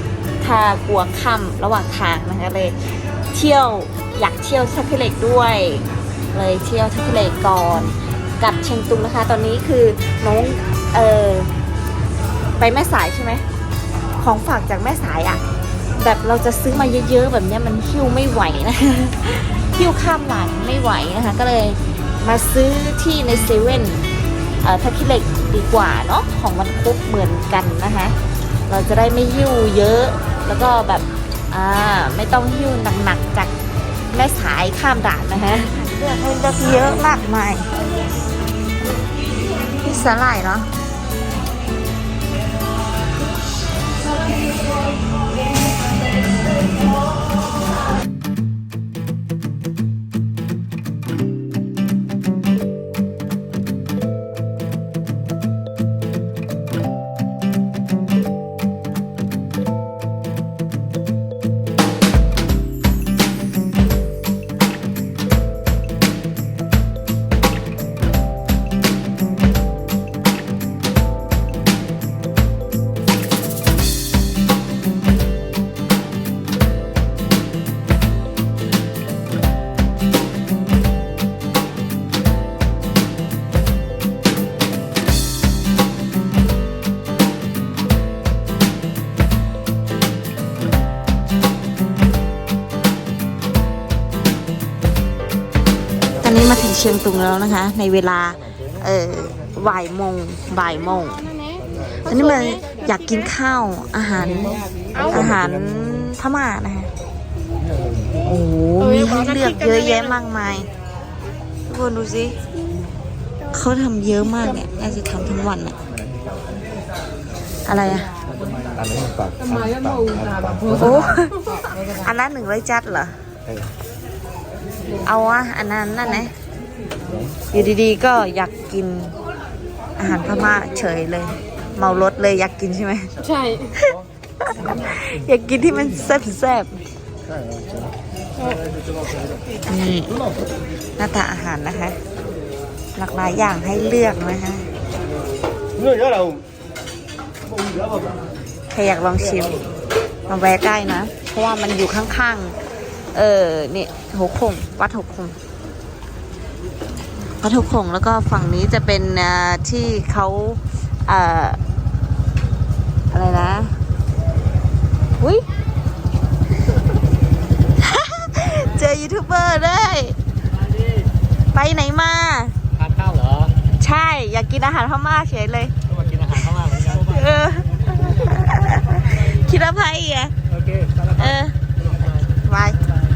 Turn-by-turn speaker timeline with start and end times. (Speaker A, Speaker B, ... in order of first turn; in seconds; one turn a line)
Speaker A: 0.4-2.8
Speaker A: 3.3-11.5
Speaker A: 12.6-13.4
Speaker A: 14.2-15.4
Speaker A: 16.0-24.0
Speaker A: 24.6-28.1
Speaker A: 28.7-33.5
Speaker A: 34.1-37.7
Speaker A: 39.8-40.7
Speaker A: 96.2-101.2
Speaker B: 100.9-103.3
Speaker A: 102.0-106.9
Speaker C: 104.4-105.4
Speaker B: 104.9-105.3
Speaker A: 108.2-110.7
Speaker B: 108.8-110.2
Speaker A: 111.7-112.4
Speaker A: 113.5-115.8
Speaker A: 117.6-118.2
Speaker C: 118.3-121.2
Speaker A: 120.7-123.2
Speaker C: 123.5-123.7
Speaker A: 125.0-126.3
Speaker C: 127.1-127.4
Speaker A: 127.5-129.2
Speaker A: 130.0-133.1
Speaker B: 133.2-133.7
Speaker A: 133.7-136.8
Speaker C: 137.4-137.7
Speaker A: 139.7-140.2
Speaker A: 141.0-142.0
Speaker A: 142.9-144.7
Speaker A: 148.7-149.6
Speaker A: 150.3-152.6
Speaker A: 153.1-155.4
Speaker A: 157.4-161.6
Speaker A: 163.1-163.7
Speaker A: 165.2-165.4
Speaker A: 167.8-170.2
Speaker A: 171.5-172.6
Speaker A: 173.7-175.7
Speaker A: 176.2-180.3
Speaker A: 181.0-181.6
Speaker A: 182.1-182.8